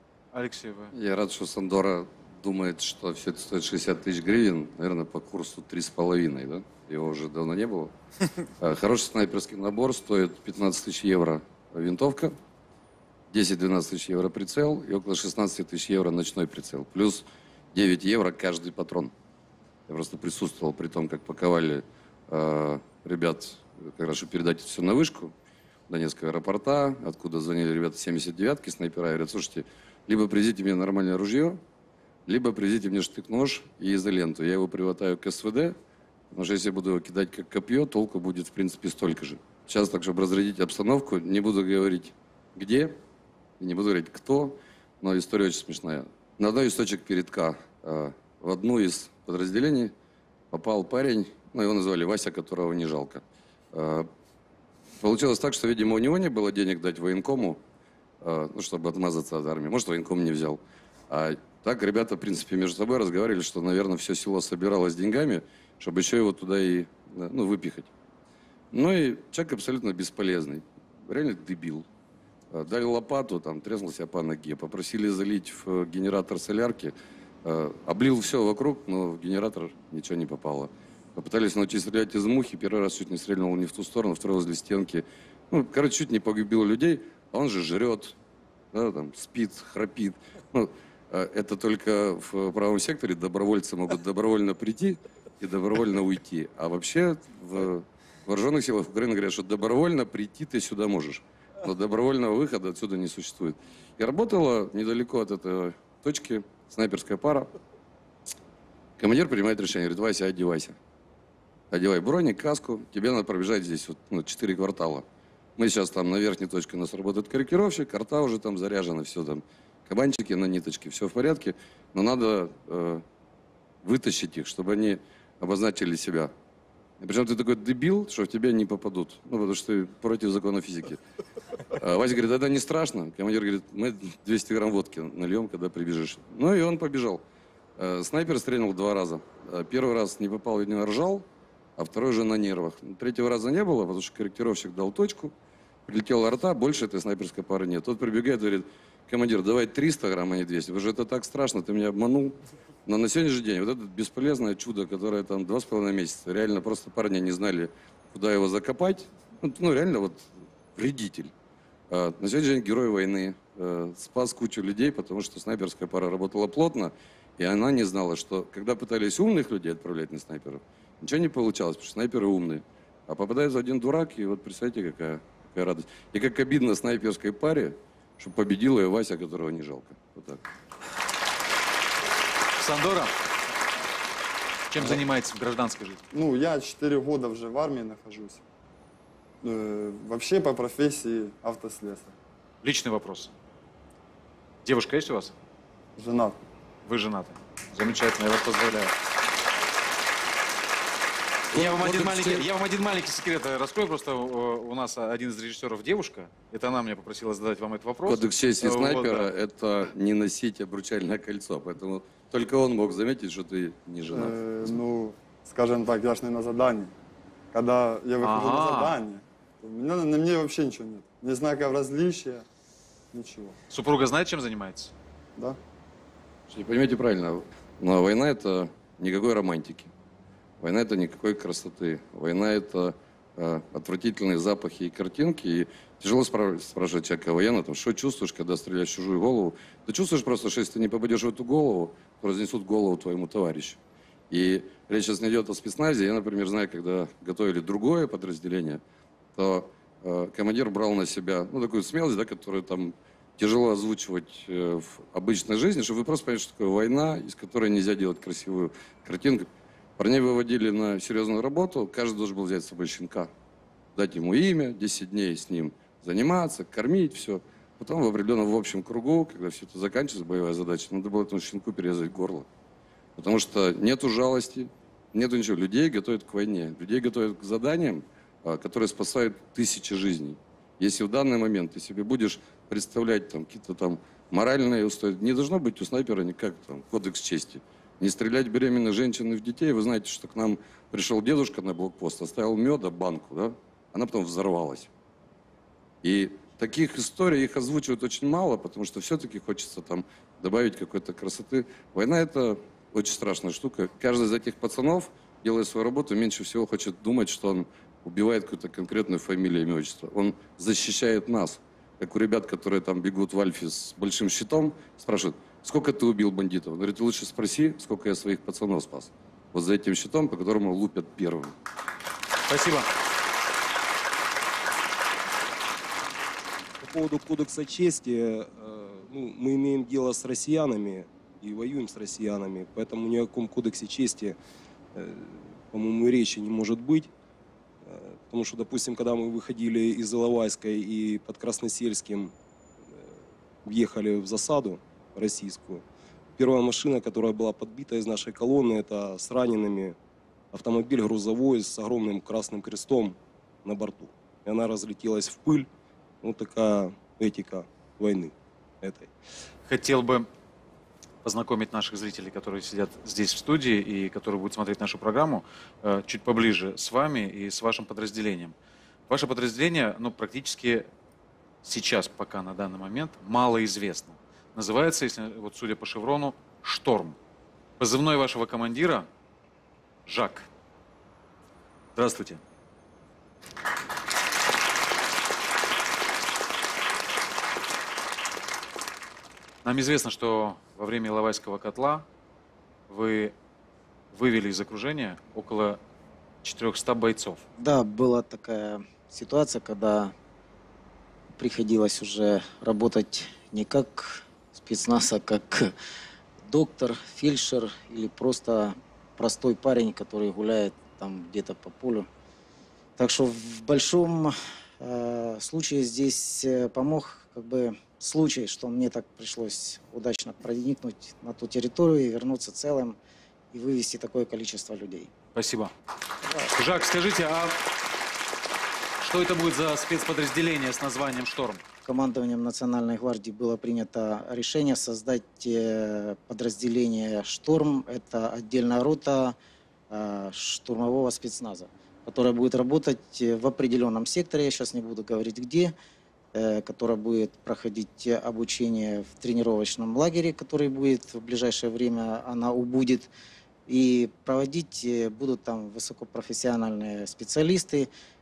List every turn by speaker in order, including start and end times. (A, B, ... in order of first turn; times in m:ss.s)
0:00.3-0:00.9 A
0:00.9-0:07.9 B
0:08.6-0:12.4 B
0:13.3-0:19.1 B
0:19.9-0:25.3 B
0:25.9-0:31.6 B
0:32.3-0:35.8 B
0:36.3-0:43.0 B
0:43.6-0:49.9 B
0:50.5-0:53.2 B
0:53.7-0:54.1 B
0:55.0-0:57.6 B
0:58.2-1:07.9 B
1:08.7-1:11.9 B
1:12.5-1:28.2 B
1:28.7-1:47.5 B
1:49.0-1:50.8 B
1:51.7-1:55.0 B
1:55.6-2:03.0 B
2:03.8-2:06.3 B
2:07.0-2:11.0 B
2:11.7-2:17.2 B
2:17.8-2:21.3 B
2:21.8-2:25.3 B
2:25.9-2:41.3 B
2:41.9-3:00.4 B
3:02.6-3:03.1 A
3:04.7-3:06.0 A
3:04.8-3:05.0 C
3:06.1-3:08.4 C
3:09.4-3:12.1 C
3:12.6-3:13.3 A
3:14.6-3:15.4 A
3:16.0-3:16.4 C
3:16.8-3:18.9 A
3:21.5-3:22.4 B
3:21.5-3:29.3 A
3:28.0-3:34.4 B
3:34.1-3:36.9 C
3:37.5-3:42.4 C
3:38.2-3:39.0 A
3:43.1-3:43.5 C
3:43.7-3:44.9 A
3:46.5-3:49.9 B
3:50.6-4:03.8 B
4:04.3-4:08.8 B
4:09.4-4:19.5 B
4:20.0-4:23.3 B
4:24.0-4:32.5 B
4:33.2-4:54.9 B
4:56.0-5:21.5 B
5:22.5-5:22.9 A
5:26.8-5:34.4 D
5:35.0-5:37.1 D
5:37.8-5:42.3 D
5:42.8-5:45.8 D
5:46.4-5:50.0 D
5:50.5-5:55.7 D
5:56.2-5:59.1 D
5:59.7-6:00.3 A
6:01.2-6:08.6 A
6:09.1-6:10.9 A
6:11.6-6:17.2 A
6:17.8-6:19.1 A
6:20.1-6:20.5 A
6:22.0-6:22.4 A
6:29.6-6:32.1 A
6:32.9-6:33.3 A
6:34.1-6:35.8 A
6:36.4-6:37.4 A
6:37.6-6:40.1 E
6:41.4-6:45.7 E
6:46.5-6:52.1 E
6:53.0-7:03.0 E
7:03.5-7:05.1 E
7:05.4-7:05.7 A
7:06.5-7:07.6 A
7:09.0-7:11.6 A
7:11.8-7:19.4 E
7:19.9-7:25.7 E
7:26.4-7:33.1 E
7:33.7-7:37.9 E